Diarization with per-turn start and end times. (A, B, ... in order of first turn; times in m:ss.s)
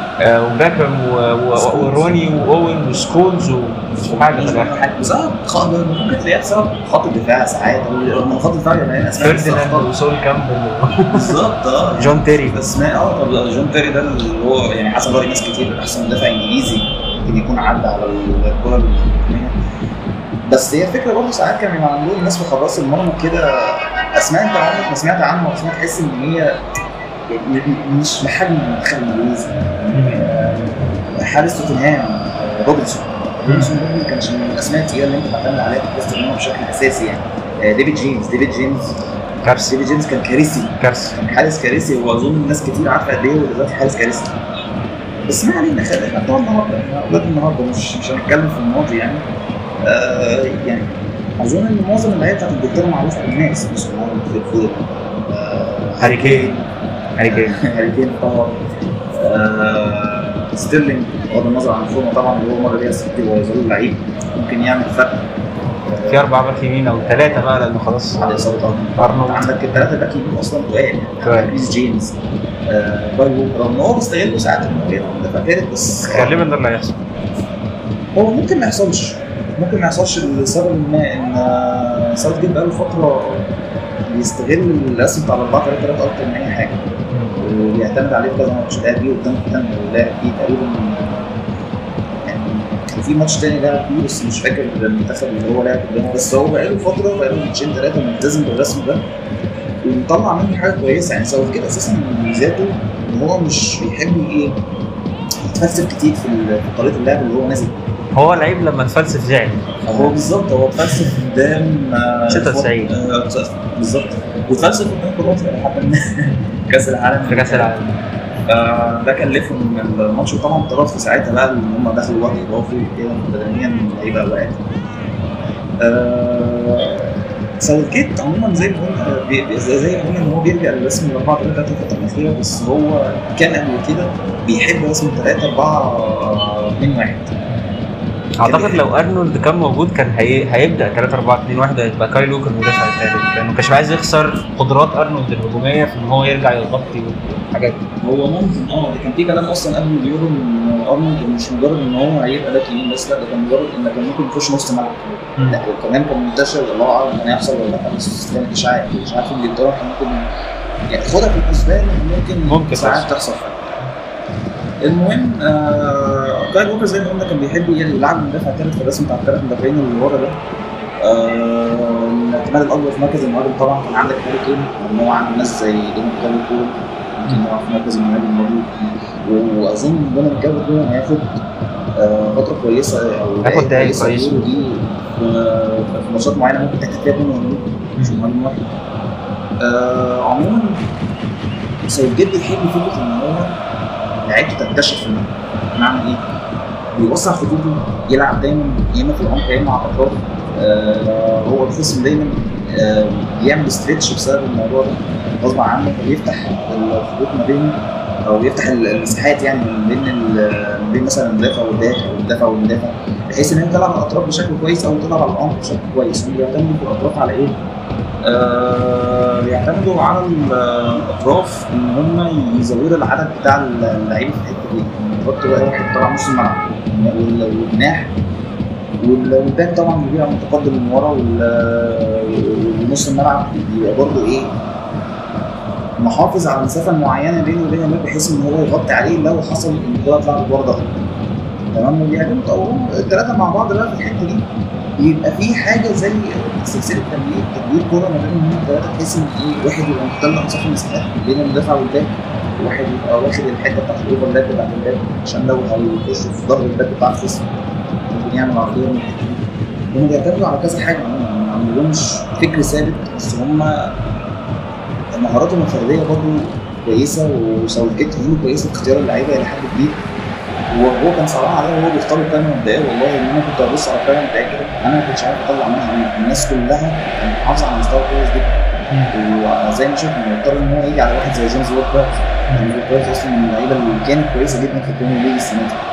0:00.2-0:04.9 A
0:01.5-0:02.1 B
0:04.0-0:09.9 B
0:09.2-0:12.6 A
0:11.1-0:19.5 B
0:20.5-0:26.6 B
0:27.3-0:39.0 B
0:29.9-0:30.2 A
0:33.5-0:33.7 A
0:39.4-0:39.7 A
0:39.5-0:44.4 B
0:40.8-0:41.2 A
0:45.3-0:49.2 B
0:49.8-0:56.7 B
0:56.0-0:56.6 A
0:57.2-0:57.6 A
0:57.3-0:58.6 B
0:59.1-1:05.3 B
1:05.9-1:06.3 B
1:06.0-1:09.8 A
1:08.2-1:16.4 B
1:11.2-1:11.6 A
1:16.0-1:17.0 A
1:18.2-1:23.5 B
1:24.1-1:26.8 B
1:27.4-1:31.4 B
1:32.2-1:39.1 B
1:39.8-1:44.6 B
1:45.4-1:47.8 B
1:48.1-1:50.0 A
1:49.8-1:57.7 B
1:52.3-1:52.9 A
1:57.2-1:58.0 A
1:58.5-2:04.6 B
2:05.8-2:17.3 B
2:18.4-2:27.8 A
2:18.4-2:18.8 B
2:28.0-2:40.3 B
2:40.9-2:43.7 B
2:42.5-2:43.1 A
2:44.8-2:50.4 B
2:51.0-3:01.4 B
3:02.0-3:08.7 B
3:03.4-3:04.5 A
3:08.0-3:08.2 A
3:09.6-3:10.8 B
3:11.9-3:13.6 B
3:14.2-3:16.2 B
3:16.9-3:37.6 B
3:38.2-3:48.2 B
3:49.0-3:54.6 B
3:56.0-4:00.9 B
4:01.7-4:04.5 B
4:05.0-4:17.5 B
4:18.1-4:24.0 B
4:25.1-4:30.0 B
4:30.7-4:38.5 B
4:39.1-4:45.8 B